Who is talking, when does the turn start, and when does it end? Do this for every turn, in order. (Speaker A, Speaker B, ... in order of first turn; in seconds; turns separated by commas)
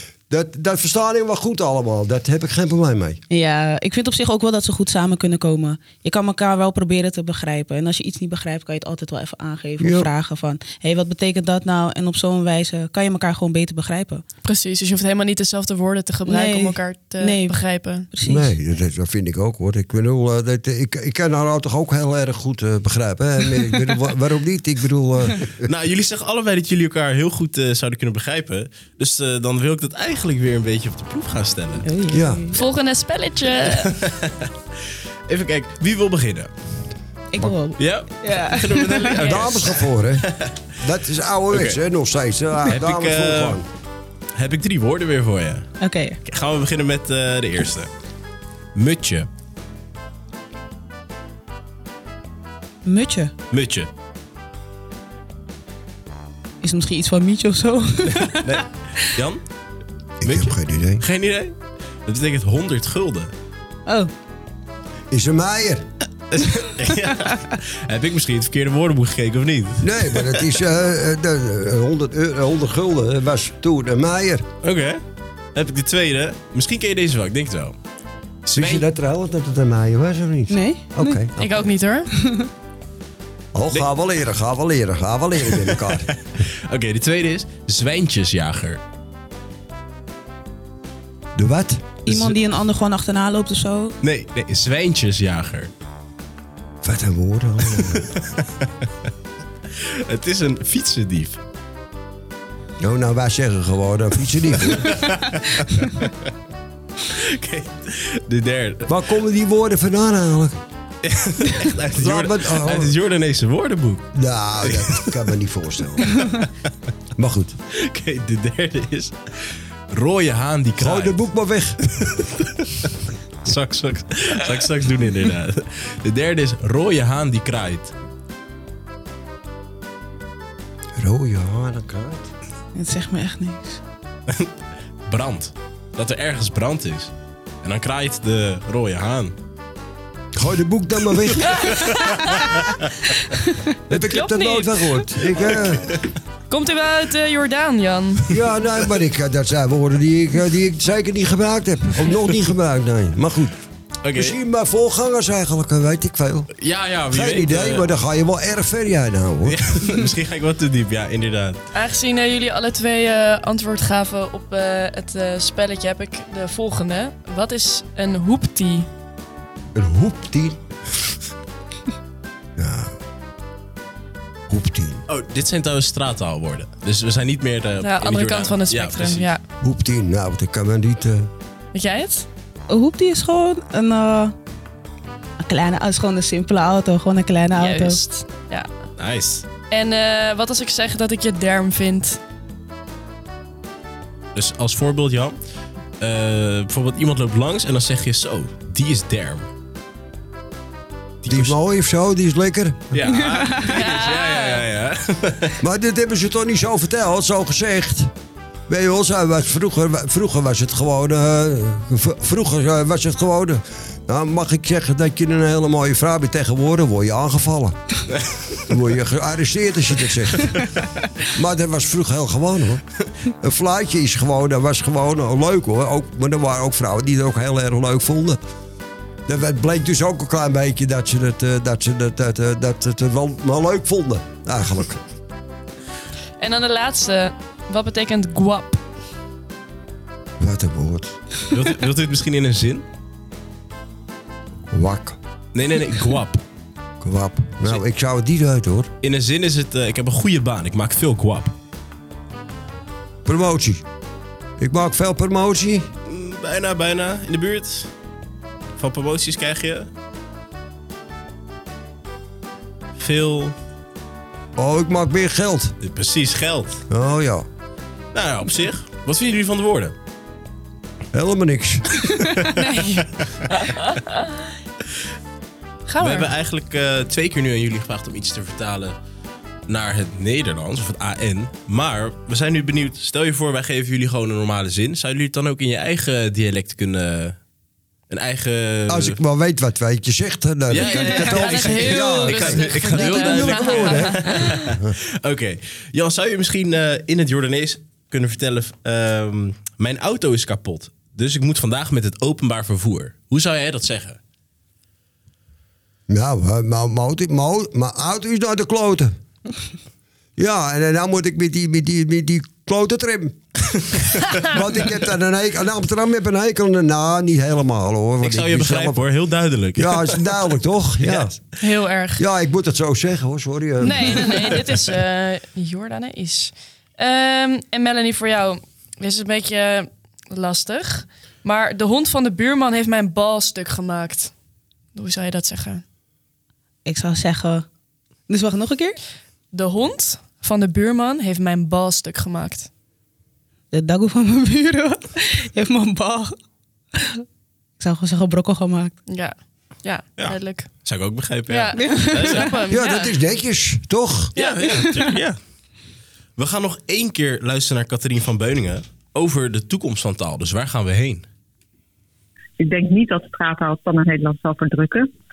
Speaker A: 0.3-3.2, Speaker B: 3.3-14.2, Speaker A: 9.8-10.1, Speaker C: 14.4-18.1, Speaker B: 16.2-17.6, Speaker B: 18.1-18.5, Speaker A: 18.2-25.7, Speaker D: 25.6-31.9, Speaker B: 31.8-32.6, Speaker A: 32.1-32.4, Speaker C: 32.5-33.9, Speaker D: 33.8-34.5, Speaker D: 35.3-36.5, Speaker B: 37.3-39.2, Speaker D: 37.4-40.5, Speaker A: 39.2-40.2, Speaker A: 40.8-43.6, Speaker D: 41.5-41.8, Speaker D: 42.7-43.6, Speaker D: 44.3-45.6, Speaker B: 45.8-46.2, Speaker D: 46.2-47.9, Speaker D: 48.7-49.3, Speaker B: 52.9-53.3, Speaker D: 53.5-53.9, Speaker B: 56.6-59.0, Speaker D: 58.1-59.4, Speaker A: 60.2-61.0, Speaker D: 60.2-63.3, Speaker A: 65.1-65.8, Speaker D: 66.3-70.4, Speaker A: 69.8-74.4, Speaker D: 74.6-75.0, Speaker D: 75.5-77.7, Speaker D: 78.5-78.8, Speaker A: 78.5-81.7, Speaker B: 80.5-81.2, Speaker C: 81.4-82.1, Speaker B: 82.1-82.5, Speaker A: 83.5-86.2, Speaker D: 85.5-85.9, Speaker D: 86.4-88.8, Speaker A: 91.3-92.0, Speaker B: 92.0-94.0, Speaker D: 92.0-92.4, Speaker D: 94.0-95.7, Speaker A: 96.8-98.1, Speaker D: 97.8-98.7, Speaker D: 99.8-101.4, Speaker A: 102.8-104.9, Speaker D: 104.7-106.1, Speaker D: 107.0-108.9, Speaker A: 108.9-110.6, Speaker D: 111.0-114.1, Speaker A: 112.0-113.0, Speaker A: 114.1-116.2, Speaker D: 114.6-115.3, Speaker D: 116.0-116.5, Speaker A: 117.2-117.5, Speaker D: 117.7-119.2, Speaker D: 119.9-121.2, Speaker A: 120.8-122.1, Speaker D: 122.0-122.9, Speaker D: 123.4-127.9, Speaker A: 131.0-132.3, Speaker B: 132.7-133.8, Speaker D: 135.1-137.1, Speaker D: 137.6-139.3, Speaker A: 140.3-141.8, Speaker C: 141.4-142.6, Speaker D: 141.4-142.8, Speaker A: 143.9-145.9, Speaker C: 144.1-145.5, Speaker C: 146.5-148.3, Speaker A: 148.3-153.5, Speaker D: 154.0-154.4, Speaker A: 154.2-156.5, Speaker D: 156.6-157.9, Speaker A: 157.1-159.6, Speaker D: 159.4-161.6, Speaker C: 161.7-168.9, Speaker A: 169.7-170.6, Speaker A: 172.6-172.9, Speaker A: 174.5-175.0, Speaker D: 175.1-179.2, Speaker C: 177.8-179.4, Speaker A: 179.6-181.3, Speaker C: 181.7-182.3, Speaker B: 182.7-184.3, Speaker B: 185.4-188.0, Speaker C: 187.5-188.7, Speaker D: 189.0-189.4, Speaker C: 189.7-192.2, Speaker D: 194.3-195.4, Speaker D: 196.0-199.5, Speaker D: 201.2-201.6, Speaker A: 201.3-202.9, Speaker D: 202.9-205.6, Speaker B: 203.1-203.5, Speaker C: 203.6-204.6, Speaker A: 205.6-208.1, Speaker A: 208.7-217.8, Speaker A: 218.7-220.6, Speaker A: 221.3-222.8, Speaker A: 223.4-228.4, Speaker A: 229.3-235.0, Speaker C: 236.4-238.8, Speaker A: 240.4-241.1, Speaker D: 241.5-242.8, Speaker A: 244.7-245.2, Speaker D: 245.5-246.4, Speaker A: 247.0-248.9, Speaker D: 249.0-251.5, Speaker A: 253.2-253.8, Speaker A: 254.6-255.9, Speaker D: 256.1-257.9, Speaker D: 258.7-259.9, Speaker D: 263.0-263.5, Speaker A: 264.6-265.7, Speaker D: 265.8-266.8, Speaker A: 266.9-267.4, Speaker D: 268.1-269.9, Speaker A: 271.1-272.1, Speaker D: 272.1-273.0, Speaker C: 272.5-273.9, Speaker C: 275.9-276.3, Speaker D: 276.0-278.9, Speaker D: 279.7-287.4, Speaker D: 288.1-289.2, Speaker A: 288.9-294.9, Speaker D: 290.7-304.2, Speaker C: 290.7-294.7, Speaker A: 306.1-309.1, Speaker A: 310.4-313.4, Speaker A: 314.4-319.1, Speaker D: 318.2-321.4, Speaker A: 319.8-321.4, Speaker C: 321.6-322.2, Speaker A: 322.2-324.5, Speaker C: 323.8-334.3, Speaker C: 334.9-335.8, Speaker B: 336.9-337.6, Speaker B: 338.3-339.0, Speaker C: 339.5-342.7, Speaker B: 343.7-346.3, Speaker B: 346.9-347.2, Speaker B: 347.8-348.9, Speaker C: 349.1-350.7, Speaker D: 350.2-352.5, Speaker C: 351.5-353.2, Speaker B: 351.7-352.5, Speaker A: 352.7-354.3, Speaker D: 354.3-355.4, Speaker B: 354.6-355.2, Speaker D: 356.4-361.2, Speaker E: 362.6-365.1